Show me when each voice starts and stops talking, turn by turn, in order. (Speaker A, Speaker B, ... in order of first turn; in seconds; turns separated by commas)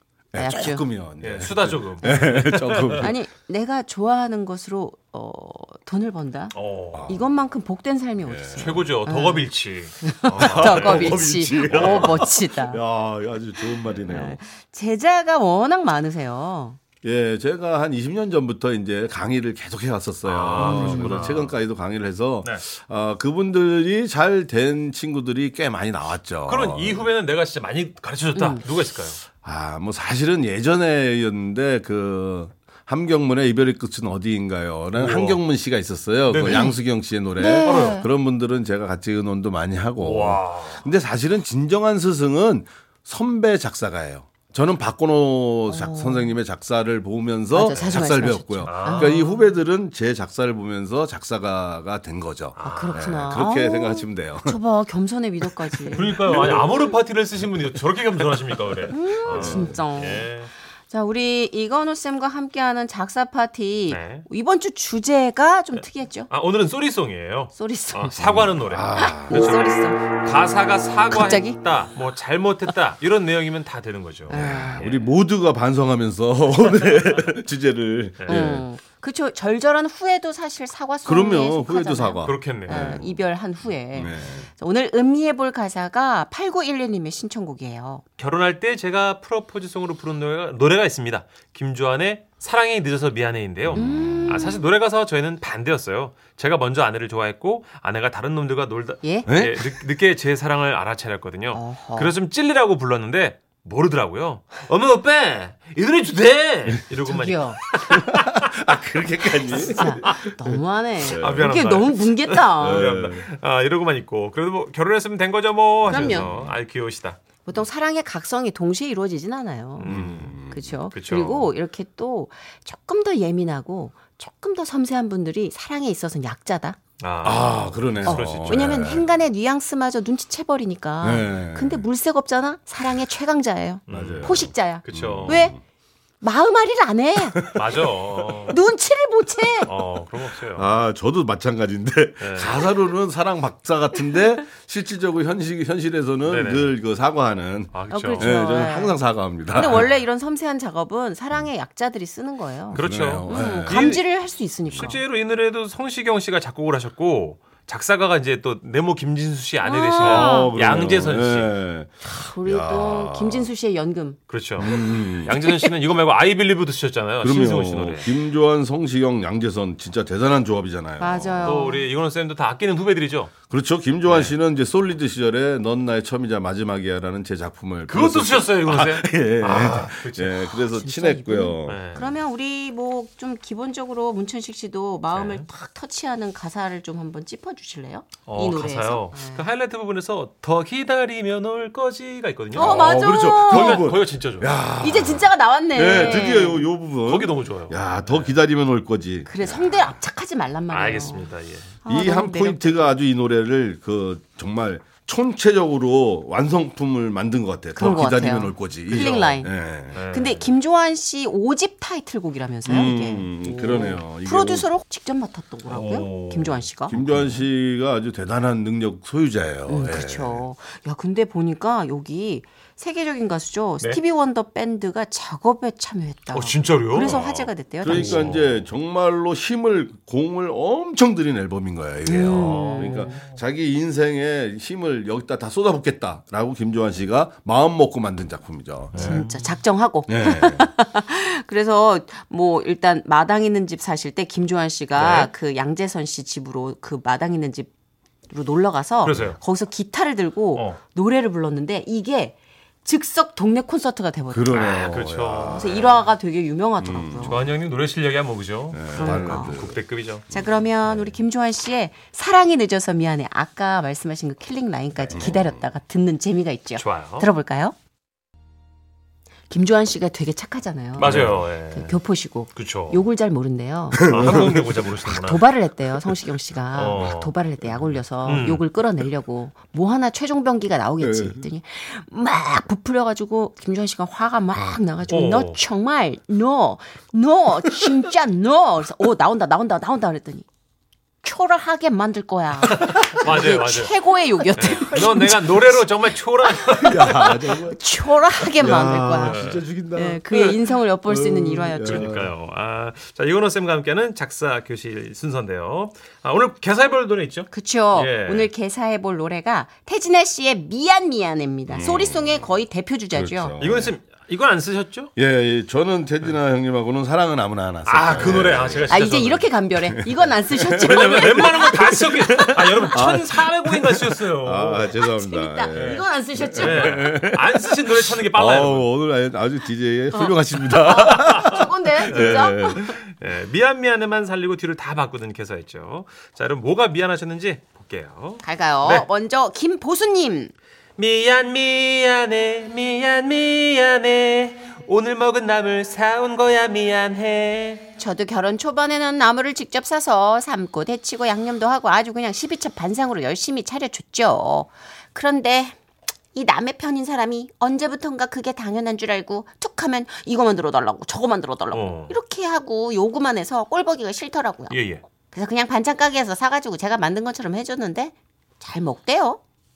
Speaker A: 0.3-3.1, Speaker B: 0.3-0.8, Speaker C: 1.2-3.1, Speaker B: 3.0-6.6, Speaker C: 6.5-7.1, Speaker A: 6.9-7.2, Speaker B: 7.1-12.8, Speaker A: 8.3-8.7, Speaker C: 8.6-12.3, Speaker A: 10.3-14.4, Speaker B: 13.7-16.8, Speaker A: 17.0-27.1, Speaker C: 20.2-21.6, Speaker B: 20.6-21.1, Speaker C: 26.5-29.2, Speaker B: 28.3-28.6, Speaker A: 29.4-54.6, Speaker C: 34.9-35.4, Speaker C: 36.3-36.8, Speaker B: 37.4-38.1, Speaker C: 37.6-38.0, Speaker C: 40.0-40.9, Speaker B: 45.7-46.4, Speaker B: 47.5-49.5, Speaker C: 48.7-49.3, Speaker C: 52.6-53.3, Speaker B: 52.6-56.7, Speaker C: 55.9-60.5, Speaker A: 55.9-56.9, Speaker B: 58.9-60.3, Speaker A: 59.3-59.8, Speaker B: 60.9-66.3, Speaker C: 63.9-64.3, Speaker C: 65.7-75.1, Speaker B: 67.5-70.0, Speaker A: 68.3-69.4, Speaker B: 71.1-71.6, Speaker B: 74.3-74.8, Speaker A: 74.3-78.7, Speaker C: 76.6-77.3, Speaker C: 78.2-78.5, Speaker B: 78.3-88.0, Speaker A: 81.0-83.2, Speaker C: 82.2-83.0, Speaker A: 83.9-84.5, Speaker C: 88.2-108.4, Speaker A: 93.7-94.4, Speaker B: 93.8-94.6, Speaker B: 99.0-99.3, Speaker A: 99.3-99.8, Speaker B: 101.5-102.2, Speaker B: 107.1-107.6, Speaker A: 107.9-111.5, Speaker C: 109.5-110.2, Speaker B: 109.6-112.9, Speaker C: 111.2-117.2, Speaker A: 112.4-113.3, Speaker A: 115.8-116.6, Speaker B: 115.9-116.3, Speaker B: 117.5-126.8, Speaker C: 119.8-120.3, Speaker A: 119.9-120.8, Speaker C: 120.9-121.5, Speaker C: 127.0-128.9, Speaker A: 127.2-129.1, Speaker B: 128.0-135.6, Speaker A: 131.0-131.8, Speaker C: 133.9-135.5, Speaker A: 133.9-135.6, Speaker B: 136.2-137.6, Speaker C: 137.6-138.6, Speaker B: 138.5-139.7, Speaker C: 139.6-140.8, Speaker A: 140.6-149.9, Speaker C: 142.2-142.6, Speaker C: 146.3-146.8, Speaker C: 147.7-148.3, Speaker B: 147.9-155.0, Speaker C: 149.6-149.9, Speaker A: 152.7-153.9, Speaker C: 152.7-154.0, Speaker C: 154.7-161.6, Speaker B: 159.6-160.6, Speaker A: 160.0-163.5, Speaker B: 162.0-165.1, Speaker C: 164.3-168.1, Speaker A: 164.6-165.4, Speaker A: 167.2-171.6, Speaker B: 171.0-171.8, Speaker C: 171.4-173.3, Speaker A: 173.5-181.9, Speaker C: 174.1-174.3, Speaker C: 177.9-180.5, Speaker B: 180.6-189.5, Speaker C: 181.7-182.2, Speaker C: 185.1-185.5, Speaker C: 188.3-194.6, Speaker B: 192.5-193.9, Speaker A: 192.6-200.0, Speaker B: 194.8-196.7, Speaker C: 195.9-196.3, Speaker C: 197.1-198.4, Speaker B: 199.3-201.3, Speaker C: 200.7-201.8, Speaker B: 201.8-203.0, Speaker A: 201.8-210.0, Speaker B: 207.8-209.5, Speaker C: 209.0-209.3, Speaker C: 209.9-210.6, Speaker B: 210.1-216.9, Speaker A: 212.7-214.7, Speaker C: 215.7-217.4, Speaker A: 216.9-220.4, Speaker B: 219.7-228.4, Speaker C: 226.3-228.6, Speaker A: 227.0-239.2, Speaker C: 232.1-233.3, Speaker B: 232.1-233.2, Speaker C: 238.9-239.5, Speaker B: 239.0-247.7, Speaker A: 240.1-240.7, Speaker C: 244.9-245.3, Speaker B: 248.3-254.7, Speaker C: 249.0-249.4, Speaker A: 254.3-255.7, Speaker C: 254.5-256.1, Speaker B: 255.5-257.4, Speaker A: 256.8-257.5, Speaker C: 257.2-260.3, Speaker A: 258.7-259.8, Speaker B: 258.9-259.6, Speaker B: 260.3-267.8, Speaker C: 260.9-261.1, Speaker A: 265.1-265.6, Speaker C: 266.8-267.3, Speaker B: 269.5-274.4, Speaker C: 271.0-272.0, Speaker A: 271.0-271.4, Speaker C: 272.5-273.1, Speaker A: 273.9-274.8, Speaker C: 274.1-275.4, Speaker B: 275.1-290.5, Speaker C: 276.7-277.3, Speaker C: 278.2-278.6, Speaker A: 281.0-281.4, Speaker C: 285.1-285.6, Speaker B: 291.2-295.9, Speaker C: 292.8-294.0, Speaker A: 292.8-293.4, Speaker C: 294.5-297.5, Speaker B: 296.6-299.4, Speaker A: 296.8-302.3, Speaker C: 299.2-299.6, Speaker B: 299.9-302.1, Speaker C: 301.8-308.5, Speaker B: 307.5-313.6, Speaker A: 311.7-312.2, Speaker C: 311.7-312.3, Speaker A: 313.1-313.9, Speaker C: 313.6-315.1, Speaker A: 315.2-319.0, Speaker C: 317.9-319.5, Speaker B: 318.9-321.9, Speaker A: 319.8-332.9, Speaker C: 320.8-325.0, Speaker B: 325.0-327.1, Speaker C: 325.7-326.0, Speaker C: 326.5-328.9, Speaker B: 330.1-333.0, Speaker C: 332.1-339.1, Speaker B: 338.4-340.5, Speaker C: 341.0-347.9, Speaker B: 348.0-355.8, Speaker B: 356.3-364.8, Speaker C: 361.7-362.2, Speaker C: 364.7-365.0, Speaker B: 365.3-369.4